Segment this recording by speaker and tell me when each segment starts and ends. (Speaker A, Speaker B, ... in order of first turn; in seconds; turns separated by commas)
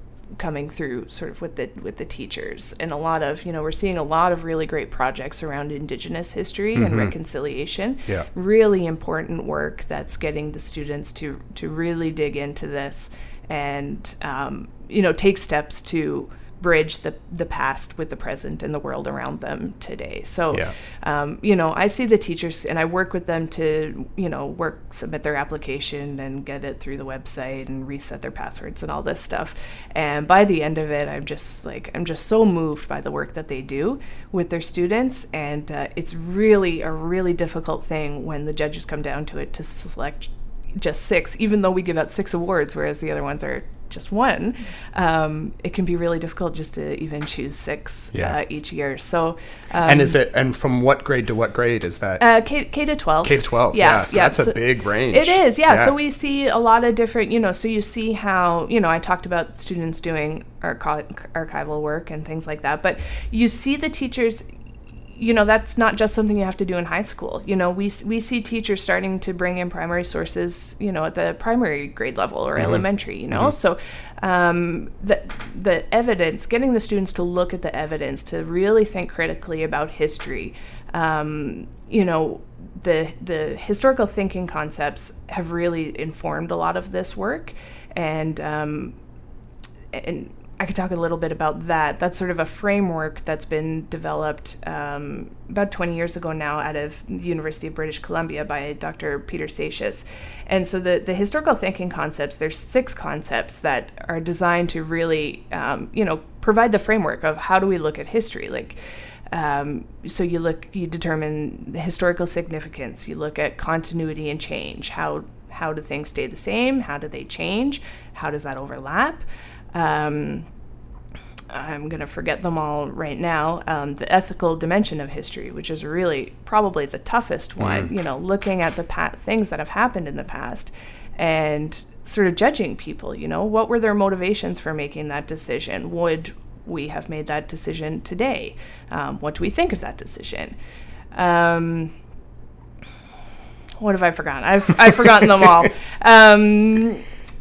Speaker A: 0.4-50.2, Speaker B: 6.8-7.1, Speaker B: 49.8-52.2, Speaker A: 52.2-64.4, Speaker B: 53.2-55.9, Speaker A: 65.1-89.0, Speaker B: 72.6-73.5, Speaker A: 89.9-108.8, Speaker A: 109.3-120.5, Speaker A: 121.5-140.6, Speaker B: 127.6-127.9, Speaker A: 141.1-141.9, Speaker A: 143.8-147.0